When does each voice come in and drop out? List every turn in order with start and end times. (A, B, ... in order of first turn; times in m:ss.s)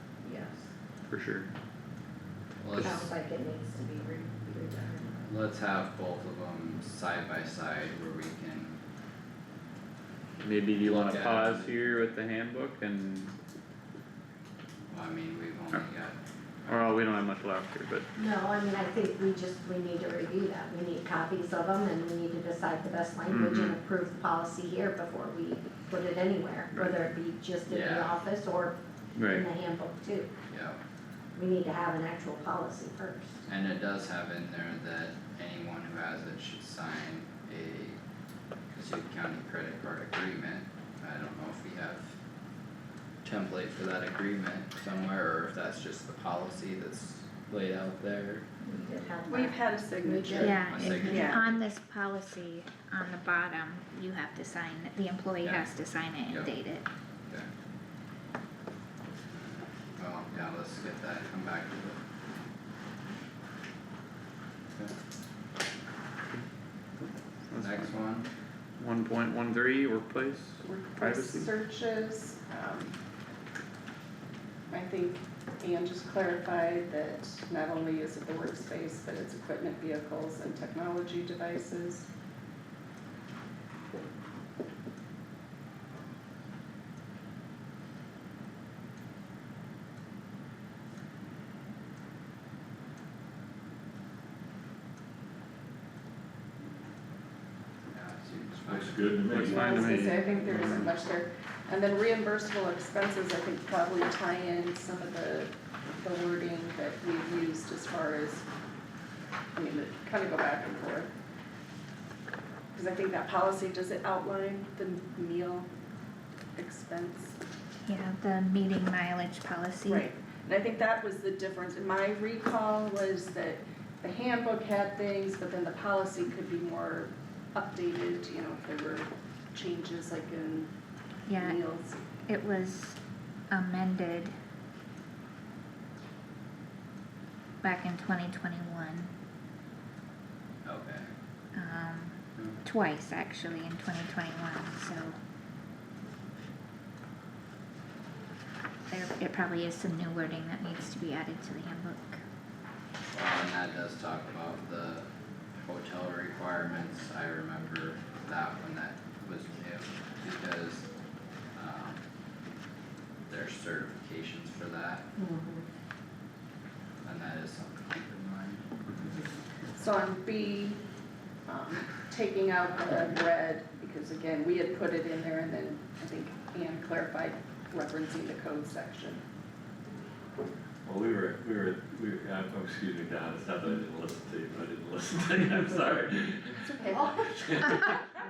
0:00.2-0:00.6 A
0:01.1-0:01.5 B
0:02.6-0:03.1 C
0:02.8-0:05.2 A
0:05.2-0:08.8 C
0:10.4-0:13.3 B
0:10.8-0:11.8 C
0:14.9-0:17.0 C
0:16.7-0:18.1 B
0:18.2-0:30.3 A
0:23.3-0:23.8 B
0:26.7-0:27.0 B
0:27.7-0:28.2 C
0:29.2-0:29.5 B
0:30.5-0:30.8 C
0:31.4-0:33.4 A
0:33.5-0:38.0 C
0:38.7-0:42.2 C
0:43.2-0:48.4 C
0:48.6-0:51.4 A
0:49.3-0:51.4 D
0:50.4-0:56.9 E
0:50.6-0:51.6 C
1:00.0-1:02.0 C
1:07.5-1:07.9 B
1:07.6-1:08.3 C
1:08.8-1:11.5 B
1:10.6-1:13.0 D
1:14.7-1:22.1 D
1:37.9-1:39.8 C
1:38.7-1:39.6 F
1:39.4-1:40.9 B
1:39.4-1:48.4 D
1:49.6-1:51.1 D
1:52.7-1:55.7 D
1:56.6-1:57.4 D
1:57.9-2:00.1 E
1:59.9-2:10.7 D
2:11.3-2:11.6 E
2:11.3-2:12.0 D
2:12.3-2:13.0 E
2:13.5-2:14.3 E
2:17.6-2:19.1 E
2:20.6-2:21.1 C
2:21.6-2:25.2 E
2:28.9-2:32.2 E
2:33.1-2:35.1 C
2:35.6-2:40.9 C
2:41.6-2:42.0 C
2:43.3-2:45.0 C
2:45.2-2:45.7 A
2:47.0-2:48.7 C
2:49.8-2:50.8 D
2:51.5-2:59.2 D
3:00.8-3:07.8 F
3:06.6-3:07.2 D
3:06.8-3:08.0 A